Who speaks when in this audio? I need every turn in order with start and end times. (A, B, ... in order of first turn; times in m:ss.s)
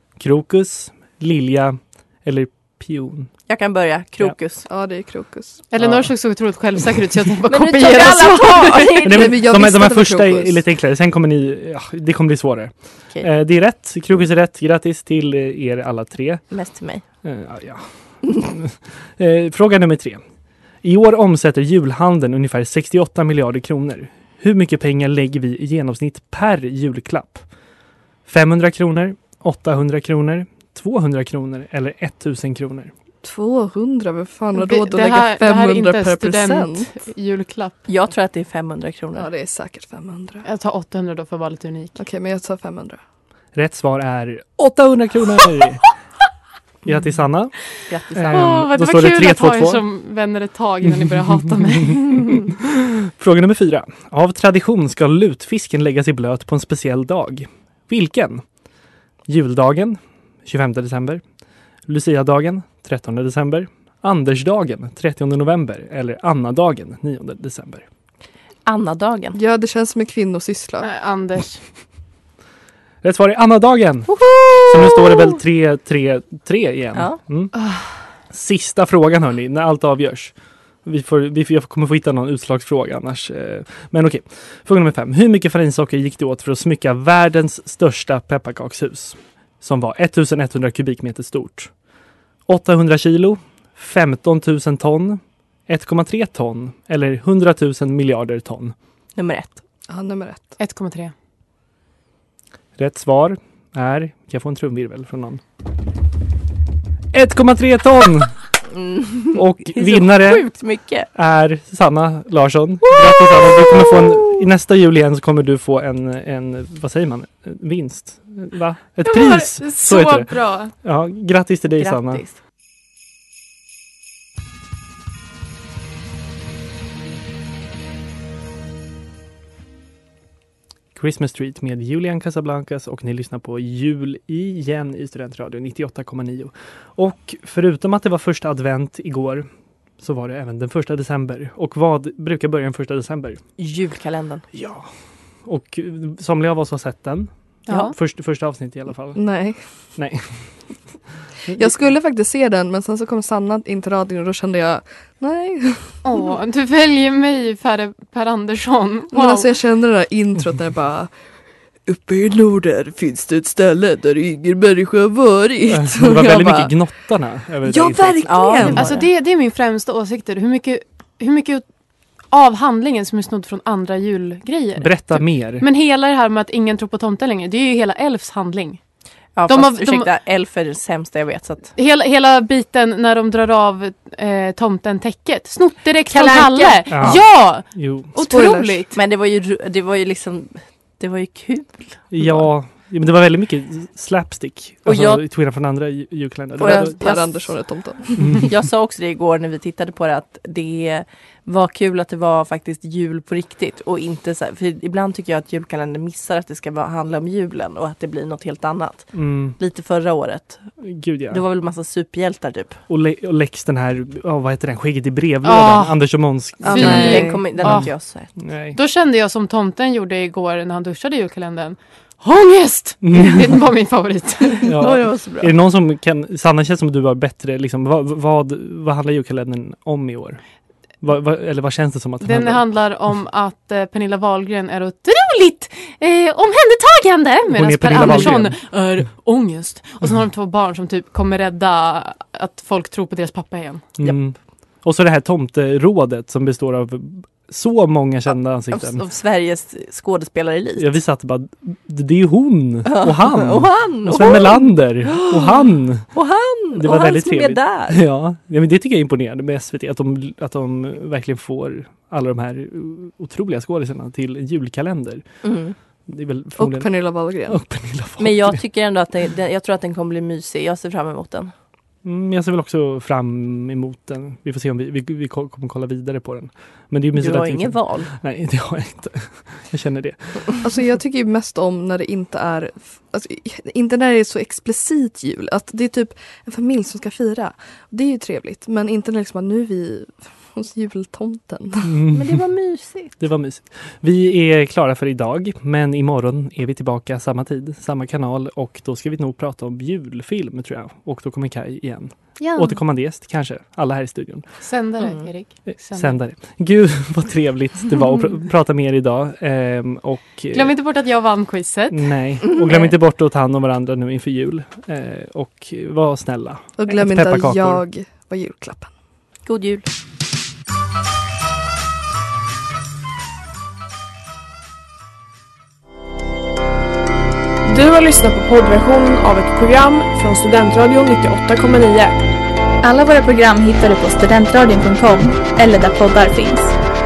0:00.2-0:03.3 A
0:03.5-0:04.7 B
0:04.7-0:05.6 C
0:05.7-0:08.9 D
0:05.8-0:06.2 A
0:07.5-0:09.4 B
0:08.4-0:10.6 C
0:09.0-0:16.6 A
0:16.5-0:17.0 B
0:17.2-0:20.2 A
0:20.8-0:27.5 A
0:28.3-0:32.9 A
0:33.2-0:36.9 C
0:34.6-0:37.9 D
0:37.9-0:39.3 B
0:39.2-0:40.4 C
0:40.4-0:42.0 D
0:42.0-0:43.0 C
0:43.5-0:45.9 A
0:46.8-0:49.8 A
0:47.9-0:48.6 B
0:48.3-0:52.6 D
0:53.2-0:58.5 A
0:59.3-1:01.2 A
1:01.9-1:07.8 A
1:08.7-1:09.4 B
1:09.4-1:10.9 C
1:10.8-1:11.6 D
1:13.0-1:31.8 A
1:14.2-1:15.3 B
1:16.9-1:17.2 B
1:17.6-1:18.0 D
1:32.5-1:38.8 A
1:39.2-1:39.6 B
1:39.9-1:40.6 C
1:40.6-1:41.1 D
1:42.8-1:45.4 A
1:47.1-1:48.5 A
1:48.8-1:51.1 B
1:49.3-2:02.2 A
1:53.1-1:54.0 B
1:59.0-2:00.7 D
2:01.8-2:02.4 B
2:11.0-2:19.5 A
2:20.0-2:23.4 A
2:23.6-2:24.5 B
2:24.5-2:30.9 A
2:27.7-2:28.0 D
2:29.2-2:29.6 C
2:31.5-2:36.2 C
2:36.0-2:39.5 D
2:39.1-2:46.9 C
2:45.7-2:48.6 A
2:47.6-2:49.0 C
2:48.3-2:49.1 B
2:48.7-2:58.8 D
2:54.8-2:55.6 A
2:59.3-3:01.7 B
2:59.5-3:00.1 D
3:01.8-3:09.0 D
3:06.1-3:07.2 B
3:06.9-3:08.1 A
3:08.2-3:08.8 C
3:08.9-3:12.5 B
3:12.1-3:17.2 A
3:14.8-3:15.2 B
3:16.6-3:32.8 B
3:16.6-3:18.4 C
3:29.1-3:29.6 A
3:30.8-3:31.4 A
3:32.9-3:38.8 A
3:35.4-3:38.0 D
3:36.6-3:37.7 C
3:36.6-3:38.4 B
3:38.7-3:44.7 D
3:43.1-3:43.5 A
3:44.6-3:50.4 A
3:44.8-3:45.5 B
3:51.0-3:52.6 A
3:52.2-4:03.9 D
3:57.5-3:58.6 A
4:04.0-4:09.0 A
4:08.7-4:11.0 B
4:10.8-4:28.6 A
4:12.9-4:18.0 B
4:25.4-4:25.8 B
4:26.6-4:27.6 C
4:28.2-4:31.5 B
4:32.0-4:40.5 A
4:37.2-4:38.1 B
4:40.6-4:52.0 C
4:51.9-4:52.5 A
4:52.1-4:53.2 B
4:53.2-5:04.7 A
5:02.4-5:02.8 D
5:04.6-5:06.2 D
5:05.0-5:05.3 B
5:05.7-5:10.8 A
5:10.5-5:12.2 D
5:11.9-5:17.8 A
5:12.5-5:12.9 B
5:16.8-5:19.0 C
5:19.4-5:19.9 B
5:27.6-5:32.2 E
5:32.8-5:36.8 F